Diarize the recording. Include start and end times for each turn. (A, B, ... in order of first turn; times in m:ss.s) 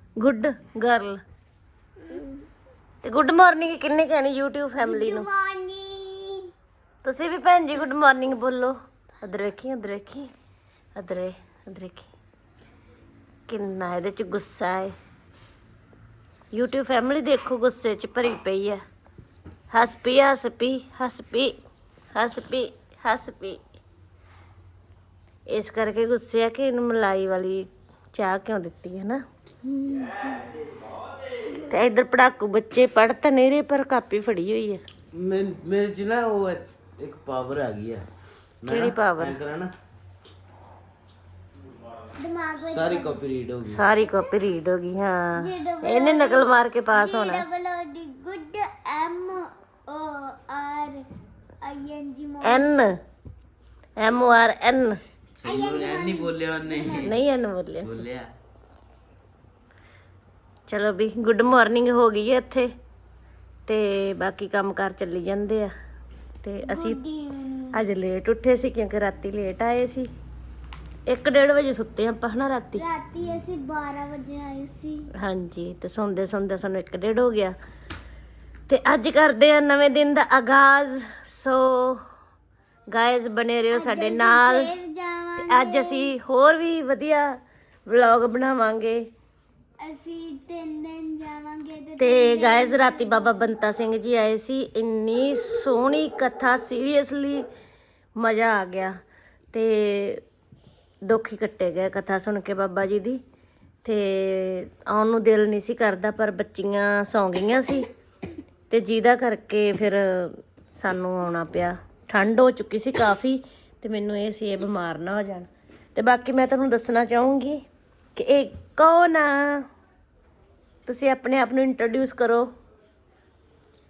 0:00.2-0:01.2 A
0:02.1-0:02.3 B
0:03.0-0:05.3 A
0:04.8-0:06.5 B
0:07.0-0:10.3 A
0:11.0-0:12.1 A
0:13.5-0:14.9 A
0:16.5-0:18.8 A
0:19.7-0:21.5 A
0:22.1-0:23.6 A
0:25.5-0:29.2 A
0:29.7-0:30.2 B
0:31.5-0:34.8 A
0:35.1-0:38.0 C
0:38.6-0:39.7 C
0:38.7-0:39.4 A
0:42.2-0:43.3 B
0:42.7-0:43.8 C
0:43.6-0:47.4 A
0:44.0-0:44.3 B
0:45.4-0:51.0 B
0:51.6-0:52.7 B
0:52.4-0:52.9 A
0:54.0-0:55.0 A
0:55.4-0:57.2 C
0:55.4-0:57.2 B
0:57.0-0:58.0 A
0:57.8-0:58.3 C
1:00.7-1:02.7 A
1:03.7-1:05.7 A
1:06.4-1:07.0 A
1:06.7-1:07.8 B
1:07.7-1:10.1 A
1:11.1-1:12.8 A
1:12.8-1:15.0 B
1:15.2-1:17.6 A
1:18.7-1:22.0 A
1:22.9-1:24.7 A
1:23.7-1:26.1 B
1:25.4-1:27.4 A
1:27.9-1:29.1 A
1:29.8-1:33.5 B
1:32.0-1:37.4 A
1:38.2-1:38.9 A
1:39.5-1:40.2 A
1:41.0-1:43.2 A
1:43.8-1:47.9 A
1:48.7-1:57.6 A
1:58.2-1:59.6 A
2:00.9-2:02.5 A